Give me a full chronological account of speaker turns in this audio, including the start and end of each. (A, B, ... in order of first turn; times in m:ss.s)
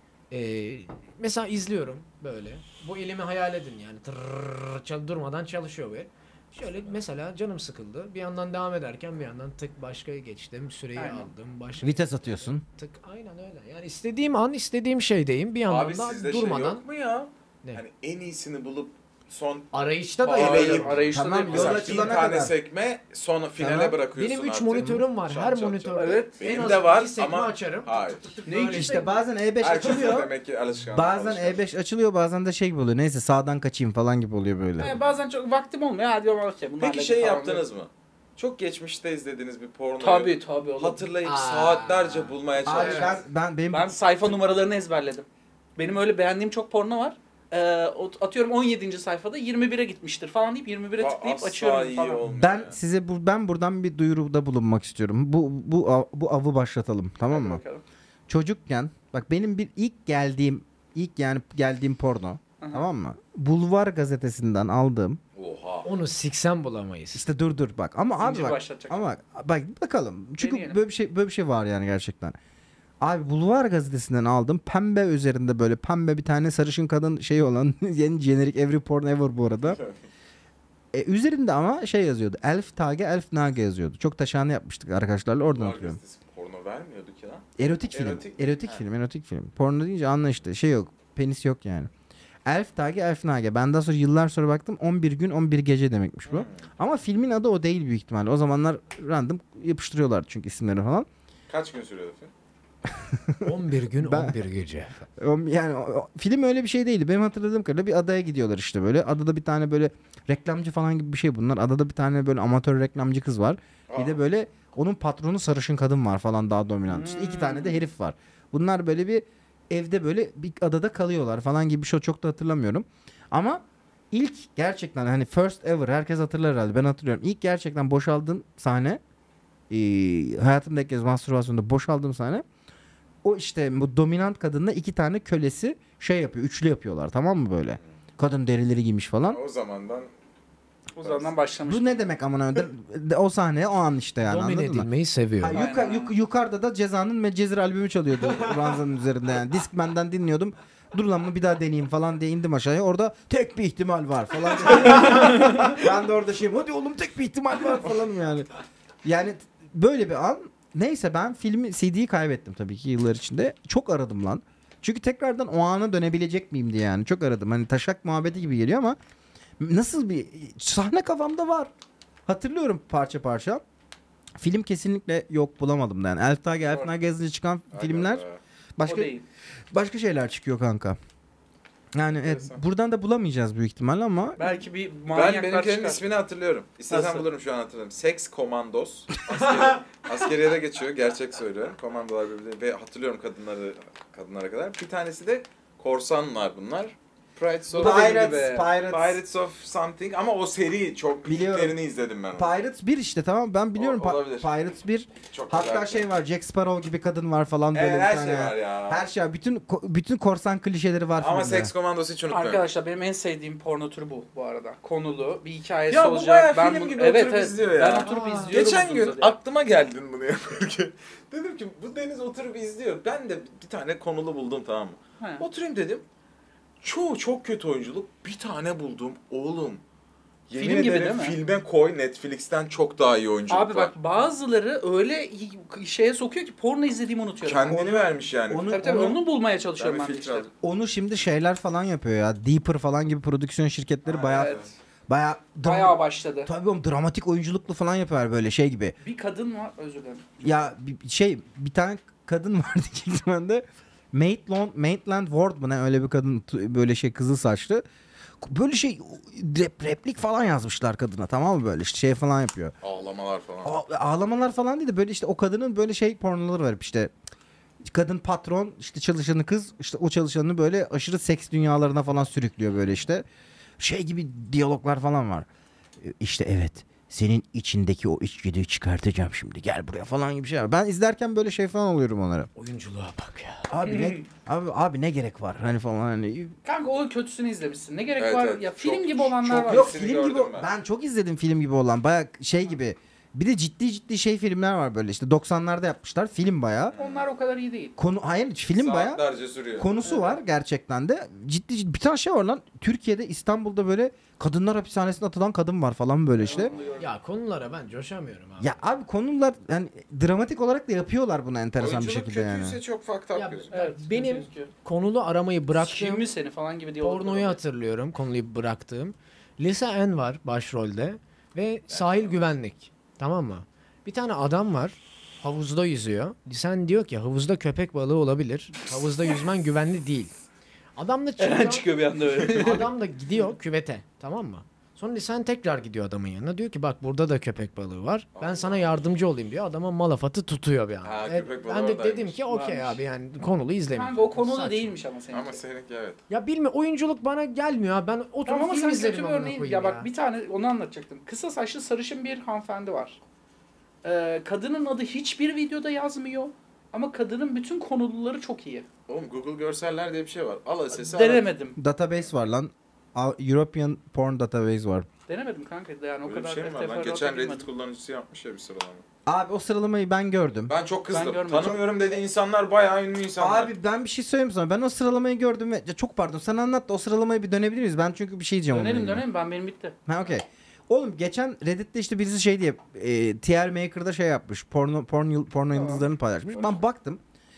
0:00.3-0:12.0 A
0:11.0-0:11.3 B
0:11.8-0:12.6 C
0:12.7-0:16.8 A
0:15.6-0:19.7 D
0:19.7-0:21.1 A
0:20.2-0:22.1 B
0:20.3-0:28.4 D
0:21.1-0:22.5 C
0:23.6-0:24.0 C
0:24.2-0:29.2 A
0:25.9-0:26.4 B
0:28.4-0:29.1 B
0:28.7-0:30.3 C
0:29.6-0:31.6 D
0:30.9-0:35.0 C
0:34.8-0:37.6 B
0:36.8-0:43.2 D
0:40.0-0:41.0 B
0:41.2-0:42.3 A
0:42.6-0:43.9 C
0:42.7-0:43.2 B
0:43.7-0:45.2 B
0:45.8-0:52.2 B
0:51.0-0:52.8 D
0:52.3-0:57.6 C
0:57.3-0:57.8 B
0:58.3-1:05.2 C
1:02.6-1:02.9 B
1:05.3-1:05.9 D
1:05.8-1:07.2 A
1:07.1-1:12.3 C
1:08.2-1:09.0 B
1:10.4-1:10.8 B
1:13.0-1:19.8 C
1:19.6-1:20.0 D
1:20.9-1:26.0 C
1:25.5-1:28.8 D
1:27.6-1:31.9 C
1:32.4-1:41.1 C
1:36.3-1:36.6 D
1:41.5-1:42.3 D
1:42.9-1:44.4 C
1:43.4-1:45.1 A
1:45.2-2:09.0 C
1:53.9-1:54.2 D
1:56.9-1:57.8 B
1:57.3-1:57.7 D
2:09.7-2:12.4 C
2:13.2-2:19.4 C
2:19.3-2:20.1 D
2:20.9-2:22.1 B
2:21.0-2:21.3 D
2:21.6-2:24.9 C
2:24.2-2:25.6 A
2:25.4-2:38.5 C
2:25.5-2:26.1 B
2:39.0-2:49.0 C
2:49.6-2:51.7 C
2:52.3-2:53.6 C
2:54.4-2:58.2 C
2:57.7-2:58.4 D
2:58.8-2:59.1 C
2:58.8-2:59.2 B
2:59.7-3:01.0 C
3:01.9-3:04.4 C
3:02.2-3:02.6 D
3:04.4-3:06.0 B
3:05.1-3:22.5 D
3:06.9-3:07.3 B
3:17.7-3:18.6 B
3:17.7-3:19.2 C
3:21.2-3:21.8 C
3:22.3-3:31.7 C
3:23.8-3:24.5 D
3:25.3-3:26.1 D
3:27.7-3:29.0 D
3:31.2-3:32.6 D
3:32.3-3:39.4 B
3:35.9-3:46.0 D
3:37.9-3:38.5 A
3:45.2-3:45.4 B
3:46.8-3:49.8 D
3:50.5-3:53.9 D
3:50.6-3:51.4 B
3:53.5-3:57.8 B
3:57.4-3:58.7 D
3:57.7-3:59.2 C
3:58.7-4:00.5 B
3:59.8-4:00.5 D
4:00.6-4:04.6 C
4:04.0-4:04.7 D
4:04.3-4:04.6 B
4:05.1-4:09.0 C
4:05.6-4:06.5 B
4:09.0-4:10.3 B
4:10.4-4:17.8 C
4:18.4-4:22.7 C
4:22.8-4:23.8 D
4:23.6-4:27.1 C
4:27.8-4:33.2 C
4:33.8-4:35.5 C
4:36.0-4:42.5 C
4:42.6-4:43.7 A
4:43.7-4:46.5 C
4:43.8-4:44.2 B
4:46.6-4:50.0 B
4:48.2-4:50.7 D
4:49.6-4:56.9 C
4:56.9-4:57.3 D
4:57.0-4:57.9 B
4:58.0-4:59.2 C
4:58.8-4:59.9 D
4:59.7-5:06.7 C
5:00.0-5:00.4 B
5:06.4-5:07.1 B
5:06.5-5:07.0 D
5:07.0-5:08.8 A
5:08.6-5:12.8 C
5:11.8-5:13.7 D
5:13.3-5:16.2 A
5:13.7-5:14.7 B
5:15.8-5:17.6 B
5:17.0-5:30.3 A
5:21.9-5:22.3 D
5:31.0-5:31.9 A
5:31.4-5:32.9 B
5:32.4-5:32.8 D
5:32.4-5:44.9 A
5:38.3-5:39.0 D
5:41.0-5:42.4 D
5:42.5-5:43.0 B
5:43.9-5:45.6 B
5:45.3-5:46.2 D
5:46.3-5:50.1 A
5:48.5-5:53.2 B
5:54.0-5:58.8 B
5:59.1-6:01.5 D
6:00.9-6:01.8 B
6:01.8-6:05.1 C
6:05.3-6:07.6 B
6:06.2-6:09.0 D
6:09.2-6:10.7 C
6:10.7-6:13.7 D
6:11.1-6:11.9 B
6:13.4-6:19.2 C
6:18.7-6:20.0 B
6:20.1-6:27.2 C
6:25.7-6:26.0 B
6:26.5-6:26.8 D